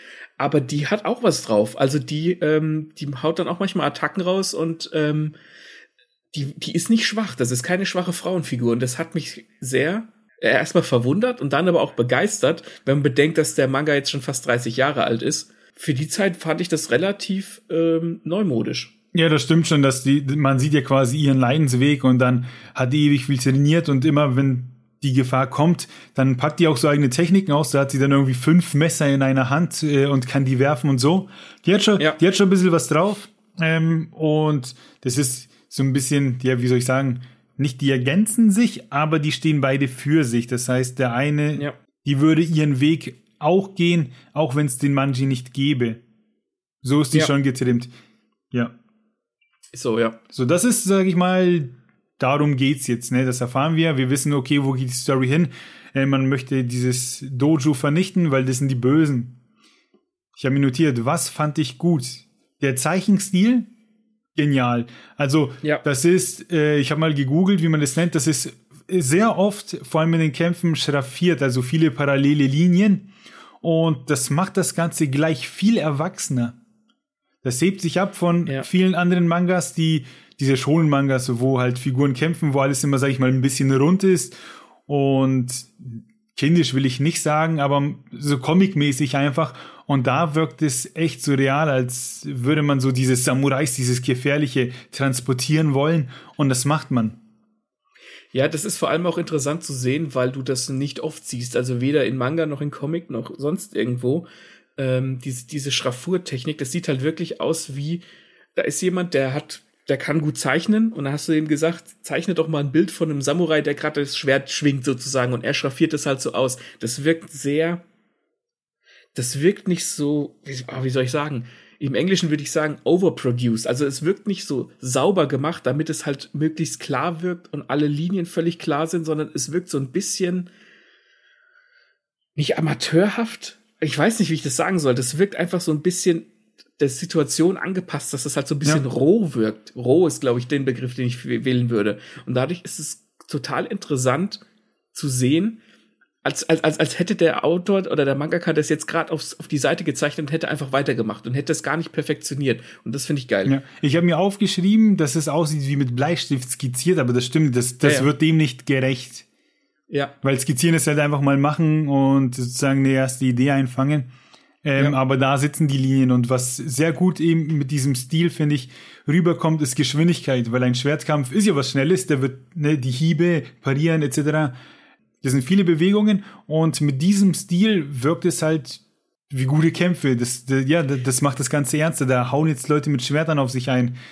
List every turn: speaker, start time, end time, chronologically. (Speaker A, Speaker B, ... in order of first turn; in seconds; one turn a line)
Speaker A: 0.4-5.3
Speaker A: 6.3-18.9
Speaker B: 19.1-46.0
Speaker B: 46.8-47.9
Speaker A: 49.7-50.2
Speaker B: 50.3-59.4
Speaker B: 60.4-63.7
Speaker B: 64.4-73.1
Speaker B: 73.6-76.6
Speaker B: 77.4-97.2
Speaker A: 98.3-104.3
Speaker A: 104.8-108.0
Speaker A: 108.5-117.8
Speaker A: 119.1-130.5
Speaker A: 132.4-144.4
Speaker A: 144.9-145.6
Speaker A: 146.2-153.5
Speaker B: 153.5-159.2
Speaker A: 157.8-158.1
Speaker B: 160.2-164.1
Speaker B: 164.6-174.5
Speaker B: 175.2-184.0